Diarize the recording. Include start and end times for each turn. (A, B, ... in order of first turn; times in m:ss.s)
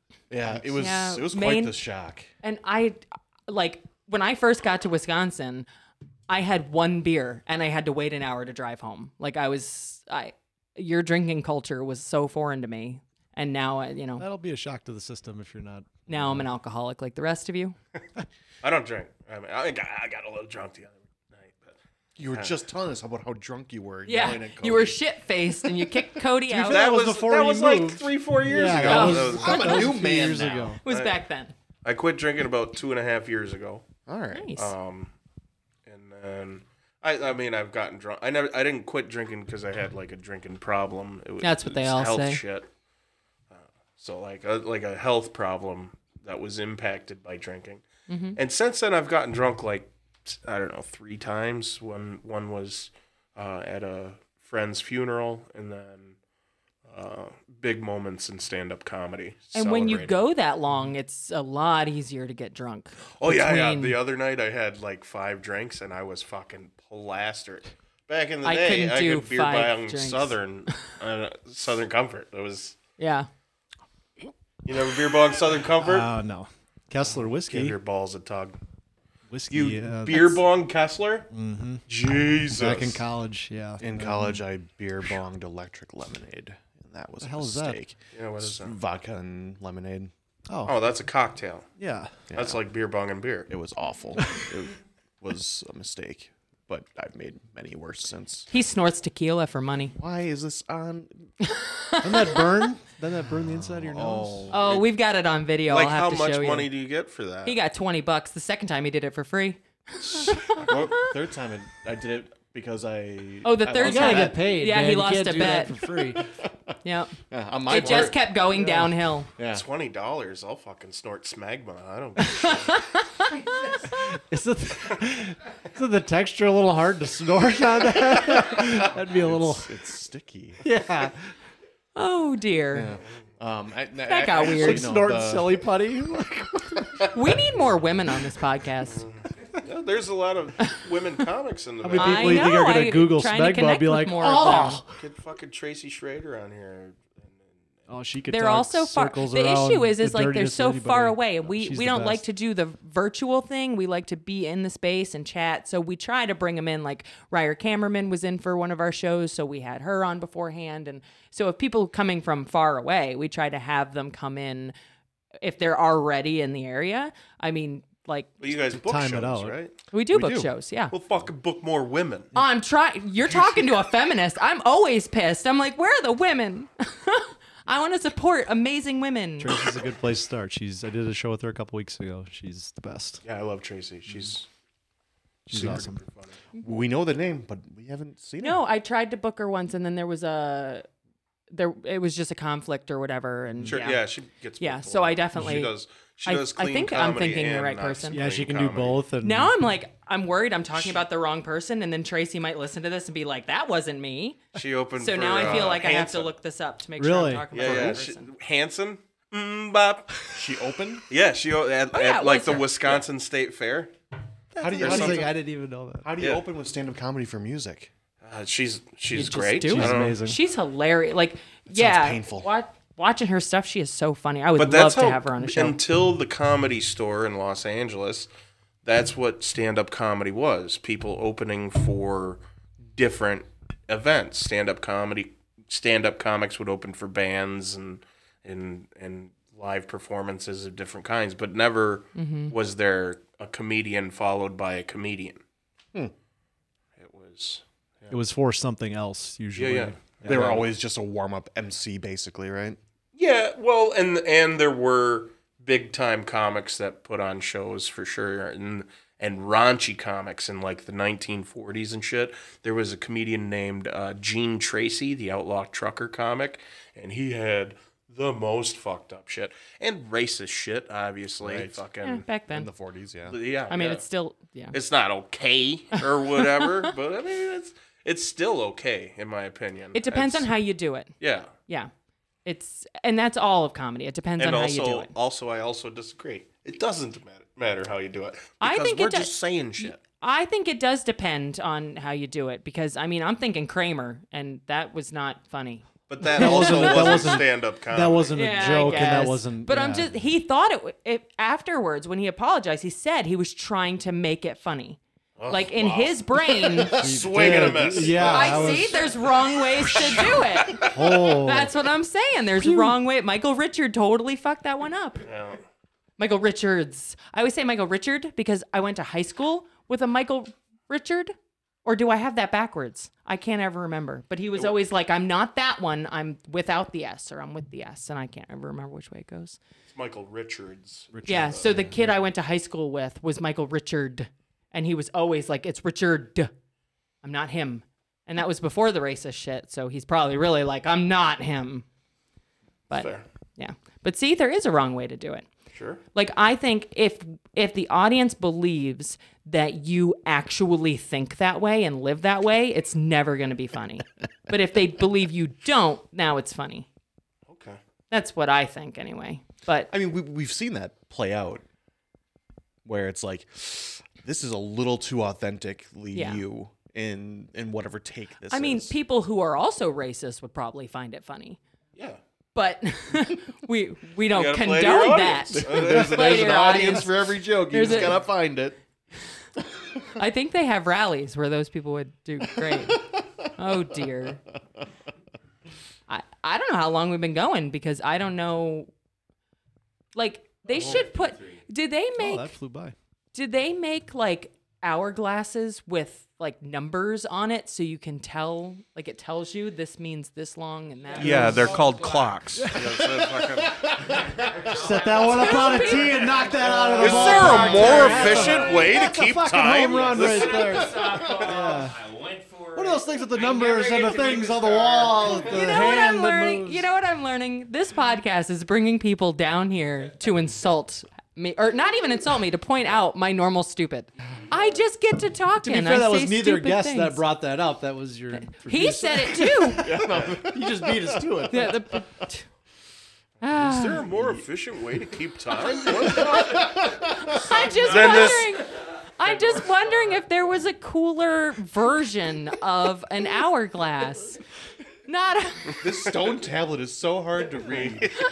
0:00.3-0:02.3 A
0:00.8-0:01.8 B
0:02.4-0:05.7 B
0:06.3-0:14.3 B
0:14.2-0:16.4 C
0:16.1-0:17.8 B
0:18.6-0:21.8 D
0:22.2-0:25.0 A
0:22.3-0:22.6 D
0:24.0-0:26.8 B
0:26.5-0:30.8 C
0:26.6-0:29.8 D
0:28.7-0:30.8 A
0:28.9-0:30.0 B
0:30.8-0:31.5 B
0:30.9-0:31.1 D
0:31.8-0:33.9 D
0:34.1-0:34.5 A
0:34.3-0:34.7 B
0:34.6-0:35.1 D
0:35.9-0:42.7 D
0:41.4-0:42.4 B
0:43.5-0:47.8 D
0:48.1-0:48.4 B
0:48.4-0:56.2 D
0:56.9-1:00.2 D
0:59.5-1:04.0 B
1:03.2-1:12.8 D
1:08.4-1:10.4 B
1:13.0-1:13.3 B
1:14.6-1:16.1 D
1:15.8-1:17.8 C
1:17.5-1:18.6 D
1:19.3-1:20.4 C
1:19.5-1:21.3 D
1:21.3-1:21.8 C
1:21.9-1:23.0 D
1:22.5-1:24.4 C
1:23.8-1:30.1 A
1:27.2-1:27.8 C
1:28.1-1:28.8 D
1:30.5-1:30.8 C
1:30.6-1:31.7 D
1:31.8-1:32.1 C
1:32.3-1:32.6 A
1:32.3-1:33.5 D
1:33.5-1:38.5 A
1:34.2-1:34.5 C
1:38.5-1:39.9 B
1:40.0-1:41.3 A
1:41.4-1:42.5 B
1:42.0-1:44.5 C
1:43.3-1:44.8 A
1:44.5-1:46.7 B
1:45.7-1:47.6 D
1:47.4-1:50.7 B
1:50.5-1:54.5 A
1:53.4-1:55.8 B
1:53.8-1:56.3 C
1:56.8-1:57.1 B
1:57.3-1:58.3 A
1:57.7-1:59.3 B
1:57.7-1:58.1 D
1:58.5-1:58.9 C
1:59.4-1:59.6 A
1:59.5-2:02.8 D
2:02.3-2:03.8 B
2:04.1-2:09.7 C
2:08.5-2:10.6 A
2:10.6-2:11.3 C
2:12.0-2:12.9 B
2:12.7-2:15.7 A
2:14.1-2:14.9 B
2:14.4-2:17.1 C
2:17.1-2:19.0 B
2:18.9-2:22.5 D
2:21.8-2:25.0 C
2:22.0-2:24.8 B
2:25.0-2:27.5 D
2:27.9-2:32.2 C
2:28.3-2:44.7 B
2:45.4-2:48.3 B
2:48.4-2:49.7 D
2:48.5-2:49.6 C
2:49.9-2:50.9 B
2:50.1-2:50.5 A
2:50.9-2:52.3 D
2:52.4-2:59.6 B
2:53.3-2:53.6 D
2:59.4-3:03.2 C
3:03.2-3:04.5 D
3:05.5-3:06.0 C
3:05.5-3:06.4 D
3:06.6-3:08.6 A
3:08.4-3:10.9 B
3:11.5-3:14.0 B
3:13.5-3:13.8 C
3:13.7-3:19.0 D
3:14.6-3:15.7 B
3:16.3-3:18.2 B
3:18.1-3:19.6 C
3:19.2-3:24.4 B
3:24.5-3:26.3 D
3:25.0-3:28.3 B
3:27.0-3:27.9 C
3:27.5-3:30.3 D
3:30.3-3:31.1 A
3:31.1-3:33.9 D
3:31.9-3:32.7 B
3:34.5-3:36.1 C
3:34.6-3:35.4 A
3:34.8-3:35.3 D
3:36.0-3:37.9 A
3:36.2-3:36.4 D
3:38.2-3:40.2 D
3:39.1-3:45.8 B
3:39.6-3:40.4 C
3:41.7-3:42.5 A
3:44.6-3:48.3 D
3:48.8-3:52.4 D
3:52.9-4:05.4 D
4:02.2-4:02.5 B
4:07.0-4:08.2 D
4:08.1-4:10.5 C
4:09.6-4:10.7 D
4:10.3-4:12.8 A
4:13.2-4:32.2 D
4:31.4-4:31.8 A
4:32.0-4:32.7 B
4:32.5-4:33.4 A
4:33.3-4:34.0 D
4:33.7-4:34.8 B
4:34.7-4:40.5 D
4:36.0-4:36.9 B
4:39.9-4:41.1 B
4:41.2-4:41.5 D
4:42.4-4:45.1 B
4:44.4-4:50.0 D
4:48.6-4:57.4 B
4:56.1-4:59.2 D
4:56.3-5:00.1 C
4:58.4-5:07.0 B
5:05.4-5:06.2 D
5:06.7-5:08.4 A
5:06.9-5:09.3 D
5:06.9-5:09.0 C
5:08.3-5:15.3 B
5:10.0-5:11.0 D
5:10.8-5:11.7 C
5:12.6-5:13.0 C
5:15.2-5:15.6 D
5:16.2-5:21.3 B
5:21.8-5:29.6 B
5:29.9-5:31.7 D
5:31.1-5:31.4 C
5:31.3-5:36.5 B
5:37.2-5:41.9 B
5:42.9-5:45.5 B
5:42.9-5:43.2 D
5:45.7-5:46.0 D
5:46.2-5:56.9 B
5:57.5-5:57.8 D
5:58.1-5:59.9 B
5:59.9-6:01.6 A
6:02.8-6:08.9 A
6:06.1-6:06.4 B
6:08.5-6:11.6 B
6:12.6-6:18.3 B
6:14.3-6:17.1 D
6:15.5-6:18.8 A
6:17.8-6:18.2 D
6:20.2-6:23.0 B
6:22.6-6:23.3 A
6:23.6-6:24.4 B
6:26.1-6:28.9 B
6:30.2-6:32.5 B
6:30.7-6:31.6 E
6:32.2-6:33.0 C
6:33.3-6:41.8 B
6:41.1-6:42.4 E
6:41.2-6:43.8 D
6:41.3-6:41.5 C
6:42.6-6:43.0 C
6:43.0-6:44.1 A
6:43.9-6:48.9 E
6:44.7-6:52.0 C
6:45.3-6:46.2 B
6:47.0-6:50.7 D
6:47.1-6:48.2 B
6:49.7-6:55.8 E
6:52.8-6:56.9 C
6:55.4-7:07.2 B
7:05.6-7:11.8 C
7:08.4-7:09.9 B
7:09.7-7:12.0 A
7:11.5-7:12.5 B
7:13.4-7:14.1 B
7:13.6-7:16.7 D
7:14.0-7:14.4 A
7:16.1-7:17.4 A
7:16.2-7:16.7 E
7:17.2-7:24.4 B
7:17.3-7:18.4 E
7:17.8-7:18.5 D
7:19.2-7:20.3 E
7:25.1-7:25.8 B
7:25.8-7:28.1 A
7:26.1-7:26.4 D
7:27.6-7:28.1 D